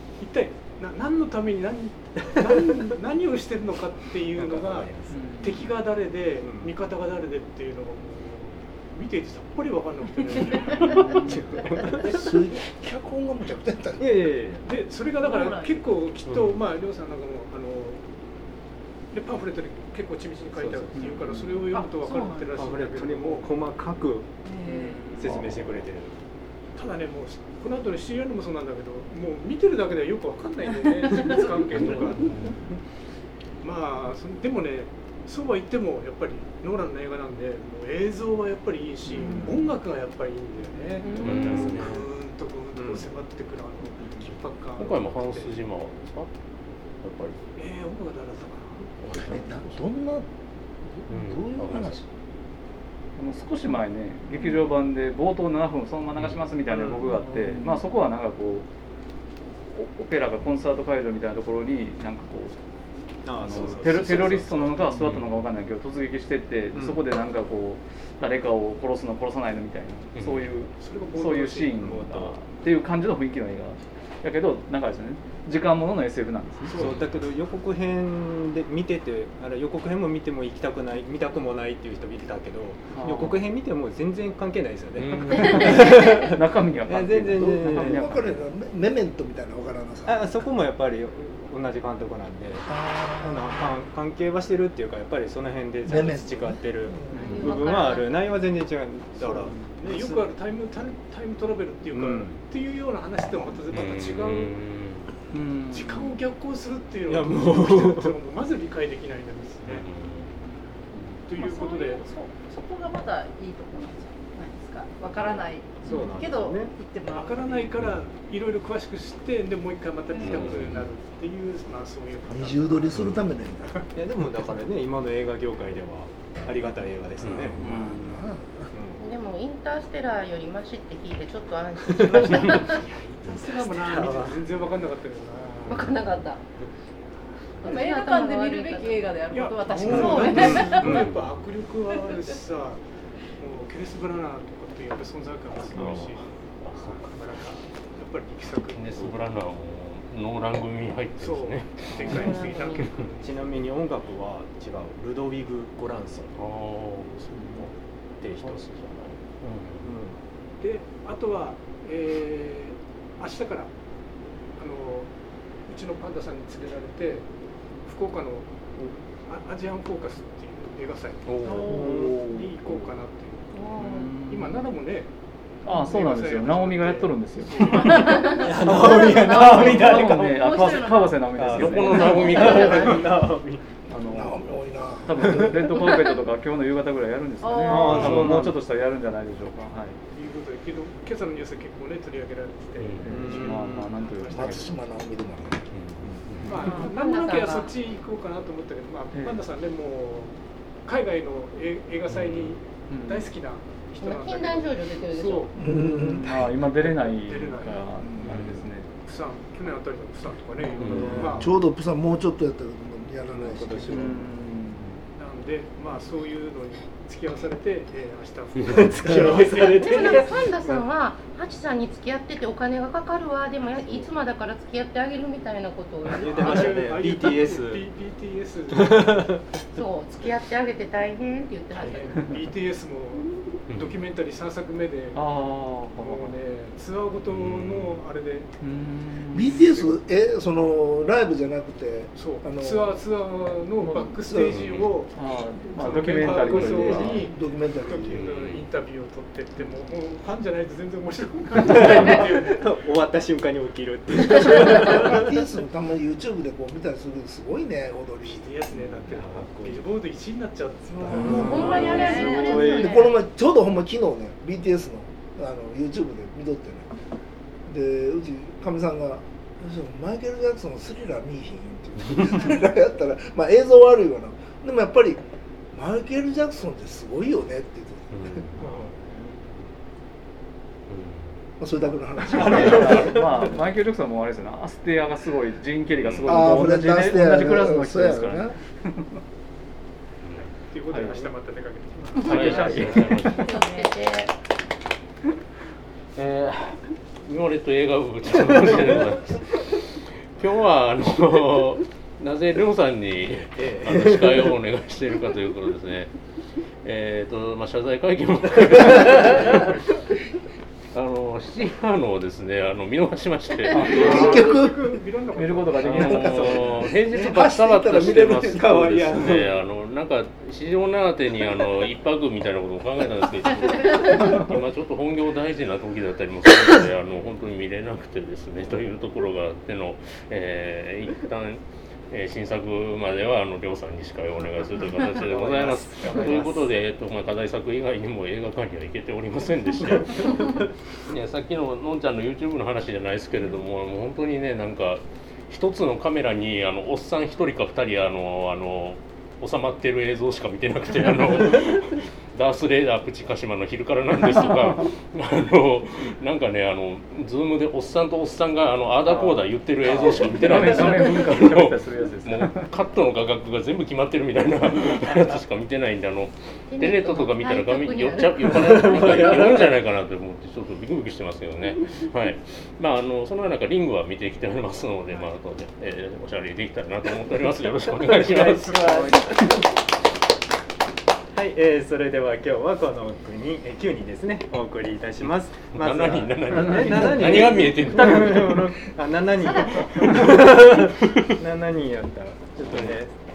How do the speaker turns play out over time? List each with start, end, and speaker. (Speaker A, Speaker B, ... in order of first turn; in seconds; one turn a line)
Speaker A: 0.2-12.1
Speaker B: 4.4-5.2
Speaker C: 5.1-5.7
Speaker B: 6.4-6.7
Speaker B: 10.2-12.2
Speaker C: 11.0-11.4
Speaker D: 12.0-14.2
Speaker B: 14.0-14.6
Speaker A: 14.6-18.0
Speaker E: 15.2-16.0
Speaker F: 16.2-16.6
Speaker A: 19.1-23.6
Speaker B: 20.5-21.4
Speaker C: 21.1-21.6
Speaker E: 21.7-22.6
Speaker B: 22.5-24.3
Speaker E: 24.4-25.2
Speaker C: 24.7-25.7
Speaker B: 25.1-26.1
Speaker A: 26.8-32.5
Speaker E: 31.2-31.4
Speaker B: 31.7-32.1
Speaker F: 31.7-32.5
Speaker A: 33.6-45.5
Speaker C: 39.1-39.7
Speaker G: 41.0-41.6
Speaker F: 41.2-42.1
Speaker B: 42.8-43.1
Speaker F: 44.8-46.3
Speaker F: 47.0-47.4
Speaker A: 47.6-48.9
Speaker F: 49.0-49.8
Speaker D: 49.2-50.3
Speaker F: 51.1-52.0
Speaker D: 51.1-52.1
Speaker C: 53.2-58.7
Speaker B: 56.7-57.1
Speaker C: 59.7-62.6
Speaker B: 63.2-65.0
Speaker C: 63.3-76.9
Speaker F: 65.0-65.2
Speaker B: 66.7-67.0
Speaker F: 70.2-70.5
Speaker A: 70.8-71.8
Speaker B: 71.8-72.4
Speaker B: 76.7-88.0
Speaker F: 76.8-77.1
Speaker C: 82.9-83.4
Speaker F: 85.0-85.6
Speaker C: 85.3-88.5
Speaker D: 87.4-90.3
Speaker B: 90.1-100.2
Speaker D: 92.7-93.6
Speaker D: 95.9-96.6
Speaker G: 97.0-98.1
Speaker C: 97.1-97.4
Speaker C: 99.2-99.8
Speaker A: 99.8-104.6
Speaker B: 101.9-102.4
Speaker F: 103.7-105.1
Speaker C: 105.3-106.2
Speaker A: 105.7-109.9
Speaker B: 107.1-108.1
Speaker F: 109.6-110.4
Speaker C: 110.9-111.3
Speaker A: 111.3-112.0
Speaker E: 111.3-117.8
Speaker B: 115.8-116.7
Speaker A: 115.9-116.2
Speaker A: 117.1-123.0
Speaker F: 117.8-118.0
Speaker E: 120.1-120.5
Speaker F: 120.1-120.8
Speaker D: 122.3-123.8
Speaker F: 122.9-123.2
Speaker B: 123.9-128.0
Speaker F: 127.2-127.6
Speaker C: 127.6-128.2
Speaker D: 127.6-128.7
Speaker B: 128.7-129.0
Speaker G: 129.0-132.9
Speaker B: 131.8-132.6
Speaker A: 132.3-135.9
Speaker B: 133.3-134.4
Speaker E: 133.3-134.2
Speaker G: 135.7-136.4
Speaker G: 137.6-139.1
Speaker E: 137.6-141.0
Speaker A: 139.3-142.8
Speaker B: 139.8-141.1
Speaker G: 139.9-140.7
Speaker F: 140.7-141.4
Speaker A: 143.4-149.2
Speaker F: 145.7-147.1
Speaker F: 148.7-153.0
Speaker A: 151.2-153.5
Speaker C: 151.9-152.4
Speaker G: 152.1-152.9
Speaker B: 153.2-156.4
Speaker F: 156.4-157.7
Speaker C: 157.3-157.7
Speaker B: 158.2-158.7
Speaker F: 158.4-159.9
Speaker B: 159.8-160.2
Speaker A: 160.6-163.7
Speaker A: 164.6-165.1
Speaker A: 165.7-167.3
Speaker A: 167.8-168.7
Speaker A: 169.2-175.1
Speaker F: 171.3-171.8
Speaker E: 171.4-171.8
Speaker B: 171.6-172.2
Speaker C: 171.8-172.9
Speaker C: 173.8-174.7
Speaker A: 175.7-178.7
Speaker C: 175.7-182.8
Speaker E: 177.7-181.4
Speaker B: 178.3-180.5
Speaker B: 181.3-183.6
Speaker F: 181.5-183.1
Speaker E: 182.0-182.6
Speaker G: 182.6-183.0
Speaker C: 183.9-184.4
Speaker D: 184.1-185.7
Speaker C: 185.0-190.0
Speaker E: 187.4-188.3
Speaker B: 187.6-188.6
Speaker F: 187.9-188.5
Speaker A: 190.1-194.8
Speaker F: 192.8-193.4
Speaker C: 193.1-194.7
Speaker B: 193.1-194.0
Speaker D: 194.3-195.7
Speaker F: 195.7-196.7
Speaker B: 196.0-196.5
Speaker A: 196.5-207.9
Speaker G: 196.6-197.7
Speaker C: 199.1-199.4
Speaker F: 202.1-202.6
Speaker C: 202.9-203.3
Speaker G: 204.0-205.5
Speaker D: 205.6-206.3
Speaker C: 205.6-208.9
Speaker D: 208.0-208.3
Speaker A: 208.9-211.5
Speaker C: 210.6-211.5
Speaker F: 210.8-211.2
Speaker B: 210.8-211.2
Speaker D: 211.4-214.2
Speaker B: 213.3-214.3
Speaker C: 213.9-215.0
Speaker A: 215.2-220.6
Speaker B: 218.7-220.8
Speaker G: 219.8-226.8
Speaker A: 226.2-229.4
Speaker B: 226.2-227.9
Speaker B: 228.7-229.4
Speaker G: 229.7-232.4
Speaker A: 231.8-235.3
Speaker F: 233.7-234.0
Speaker C: 235.2-236.4
Speaker A: 235.9-238.5
Speaker F: 237.3-238.1
Speaker C: 238.6-239.8
Speaker D: 239.3-243.0
Speaker A: 242.2-252.7
Speaker C: 243.8-244.2
Speaker D: 244.3-244.6
Speaker F: 244.5-244.9
Speaker C: 245.1-247.3
Speaker B: 245.8-247.2
Speaker D: 247.1-248.2
Speaker F: 248.1-248.7
Speaker B: 251.7-255.3
Speaker D: 254.7-258.5
Speaker A: 258.2-262.4
Speaker B: 258.7-259.9
Speaker E: 260.9-263.2
Speaker B: 261.0-263.0
Speaker D: 261.1-267.0
Speaker G: 261.5-263.0
Speaker D: 267.7-275.2
Speaker D: 275.7-278.5
Speaker F: 278.1-278.7
Speaker B: 278.6-279.3
Speaker A: 278.6-278.9
Speaker F: 280.9-281.4
Speaker D: 281.6-283.2
Speaker C: 282.4-289.2
Speaker B: 282.4-283.0
Speaker F: 285.9-286.5
Speaker D: 286.3-288.6
Speaker F: 290.2-290.5
Speaker A: 290.4-293.1
Speaker C: 290.9-291.3
Speaker F: 292.2-293.5
Speaker E: 292.2-294.0
Speaker C: 292.2-293.2
Speaker G: 293.4-294.3
Speaker F: 296.2-306.1
Speaker B: 303.6-304.5
Speaker F: 306.8-309.7
Speaker F: 310.9-314.4
Speaker C: 313.7-314.2
Speaker A: 313.7-316.4
Speaker D: 314.0-314.8
Speaker C: 315.4-316.7
Speaker F: 315.8-379.1
Speaker B: 315.9-317.4
Speaker D: 317.1-319.1
Speaker B: 318.3-319.5
Speaker C: 324.1-324.6
Speaker B: 335.0-336.7
Speaker B: 339.9-340.6
Speaker C: 359.0-362.7
Speaker B: 359.9-361.2
Speaker B: 365.0-365.4
Speaker G: 366.7-369.6
Speaker B: 368.7-369.7
Speaker B: 378.1-379.6
Speaker C: 378.9-379.3
Speaker B: 381.3-393.1
Speaker F: 385.7-388.6
Speaker C: 386.5-388.7
Speaker F: 392.7-393.0